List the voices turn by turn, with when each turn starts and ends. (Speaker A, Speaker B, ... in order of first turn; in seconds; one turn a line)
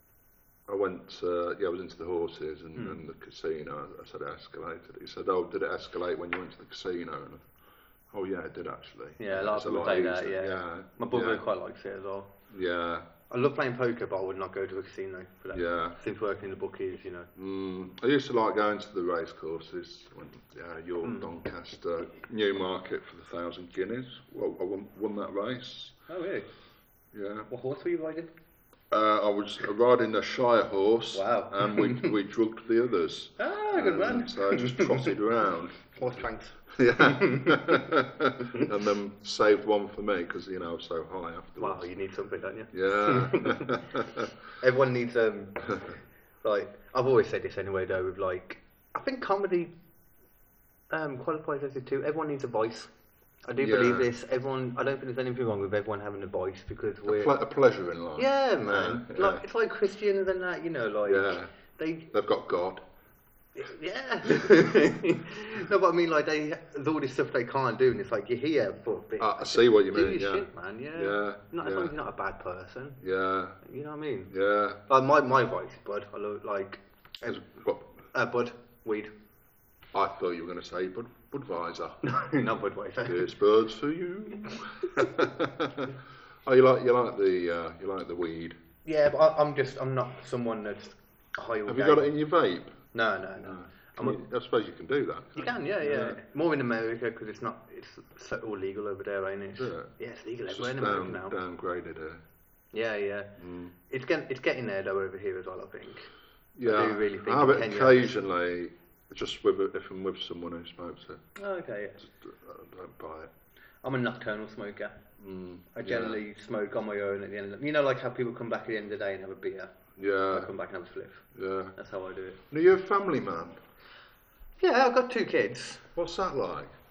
Speaker A: 0.7-7.4
Speaker B: 2.7-3.0
Speaker A: 8.1-11.4
Speaker B: 9.2-12.3
Speaker A: 12.5-13.1
Speaker B: 13.3-17.3
Speaker A: 15.5-16.0
Speaker A: 17.4-25.9
Speaker B: 21.0-21.3
Speaker B: 26.1-26.5
Speaker A: 27.1-27.5
Speaker B: 27.5-28.3
Speaker A: 28.9-35.8
Speaker B: 31.1-32.1
Speaker B: 33.4-35.1
Speaker B: 35.9-37.9
Speaker A: 36.7-41.9
Speaker B: 38.4-38.7
Speaker B: 41.6-44.0
Speaker A: 42.7-44.3
Speaker B: 44.6-45.7
Speaker B: 46.4-49.7
Speaker B: 50.9-52.9
Speaker B: 53.5-57.3
Speaker A: 53.6-54.1
Speaker A: 57.1-59.4
Speaker B: 58.1-62.1
Speaker A: 61.0-61.5
Speaker A: 62.1-62.8
Speaker B: 63.5-73.0
Speaker A: 69.2-71.9
Speaker A: 73.0-73.6
Speaker B: 73.6-74.3
Speaker A: 74.3-74.8
Speaker B: 74.9-77.4
Speaker A: 77.3-77.9
Speaker B: 78.1-79.1
Speaker A: 79.9-82.0
Speaker B: 82.0-83.3
Speaker A: 83.0-88.6
Speaker B: 88.8-92.1
Speaker A: 91.7-92.8
Speaker B: 92.9-94.2
Speaker A: 93.4-96.2
Speaker B: 95.3-101.3
Speaker A: 99.5-99.9
Speaker A: 100.5-102.2
Speaker B: 102.7-103.3
Speaker A: 103.4-103.7
Speaker B: 103.9-106.1
Speaker A: 106.5-111.2
Speaker B: 106.6-108.2
Speaker B: 111.3-112.0
Speaker A: 112.0-113.3
Speaker B: 113.8-115.0
Speaker A: 115.2-116.2
Speaker B: 115.7-119.8
Speaker A: 120.0-120.5
Speaker B: 120.3-122.4
Speaker A: 121.3-121.7
Speaker A: 122.5-123.6
Speaker B: 124.6-125.8
Speaker A: 126.0-126.8